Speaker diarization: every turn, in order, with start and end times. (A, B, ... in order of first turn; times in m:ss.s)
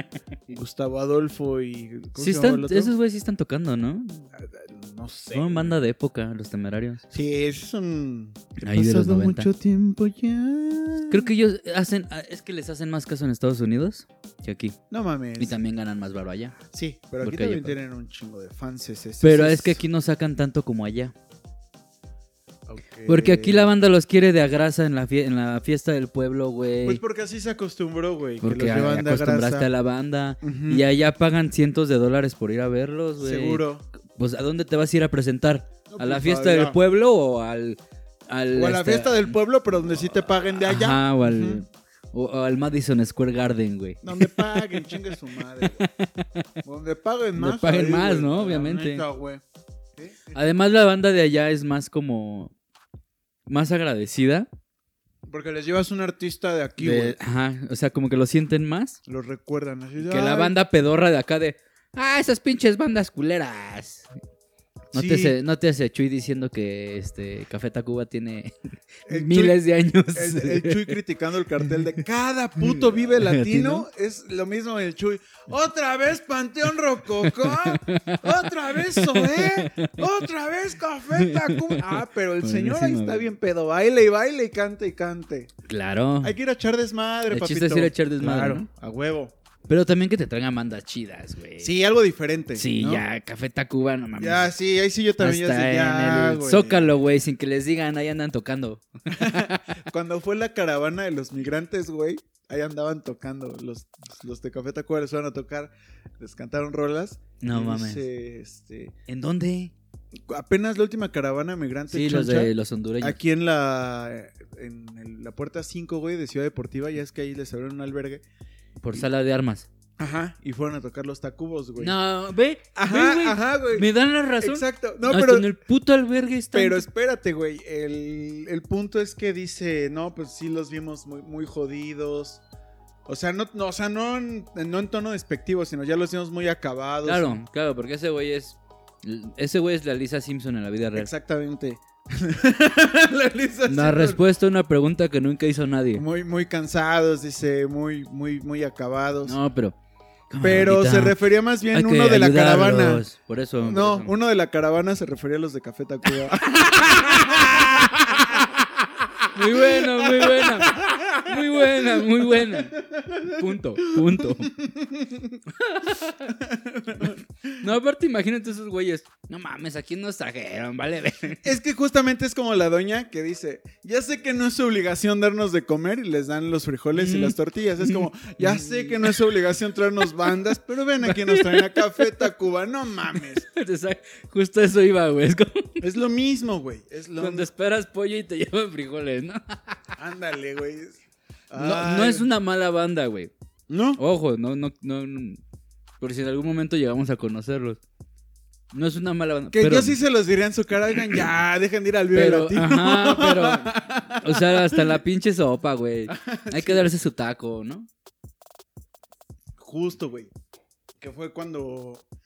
0:00.5-0:02.9 A
0:02.2-0:04.3 B
0:04.3-0:05.8 A
0:05.3-0:07.0 B
0:07.1-0:11.3 A
0:08.6-0:09.5 B
0:11.1-0:14.8 B
0:14.9-0:15.6 A
0:15.4-0:16.6 B
0:16.7-0:19.8 A
0:17.2-0:17.8 B
0:19.2-0:21.1 B
0:22.7-0:23.7 A
0:23.0-0:27.0 B
0:26.8-0:29.7 A
0:28.4-0:45.1 B
0:30.4-0:30.9 A
0:33.2-0:33.8 A
0:35.9-0:36.8 A
0:38.5-0:41.6 A
0:44.0-0:45.9 A
0:45.6-0:46.4 B
0:46.6-0:49.4 A
0:47.4-0:49.0 B
0:50.0-0:50.5 A
0:50.3-0:52.5 B
0:53.5-0:54.5 B
0:55.3-0:57.2 A
0:56.8-0:59.0 B
0:59.0-1:00.5 A
1:00.0-1:04.1 B
1:04.9-1:05.4 A
1:04.9-1:08.5 B
1:09.0-1:10.9 B
1:09.1-1:09.6 A
1:10.1-1:25.5 A
1:12.6-1:13.8 B
1:17.2-1:20.1 B
1:21.1-1:23.3 B
1:25.7-1:26.4 B
1:26.2-1:29.3 A
1:27.3-1:28.7 B
1:29.7-1:31.7 B
1:31.6-1:33.0 A
1:32.5-1:34.5 B
1:34.2-1:36.9 A
1:35.2-1:39.8 B
1:39.1-1:48.9 A
1:47.4-1:48.0 B
1:49.1-1:49.7 B
1:50.3-1:58.2 A
1:51.9-1:53.2 B
1:58.8-1:59.7 B
2:00.0-2:01.9 A
2:01.8-2:06.8 B
2:02.7-2:05.5 A
2:06.5-2:12.4 A
2:13.0-2:17.4 A
2:17.0-2:21.1 B
2:20.9-2:24.2 A
2:23.7-2:26.0 B
2:25.9-2:29.4 A
2:29.2-2:29.8 B
2:30.3-2:31.2 B
2:30.4-2:33.0 A
2:31.7-2:34.1 B
2:33.6-2:45.4 A
2:36.8-2:38.2 B
2:39.3-2:44.5 B
2:45.5-2:46.3 B
2:46.2-2:47.6 A
2:47.0-2:51.5 B
2:51.4-3:03.4 A
2:56.9-2:59.3 B
3:01.0-3:02.3 B
3:03.1-3:05.8 B
3:05.8-3:07.5 A
3:07.2-3:09.9 B
3:10.0-3:11.0 A
3:11.5-3:12.3 A
3:11.6-3:13.3 B
3:13.7-3:14.0 A
3:14.0-3:15.4 B
3:16.0-3:17.8 B
3:18.7-3:20.0 B
3:19.5-3:25.0 A
3:22.1-3:27.9 B
3:26.1-3:26.9 A
3:29.6-3:30.3 A
3:31.0-3:32.0 A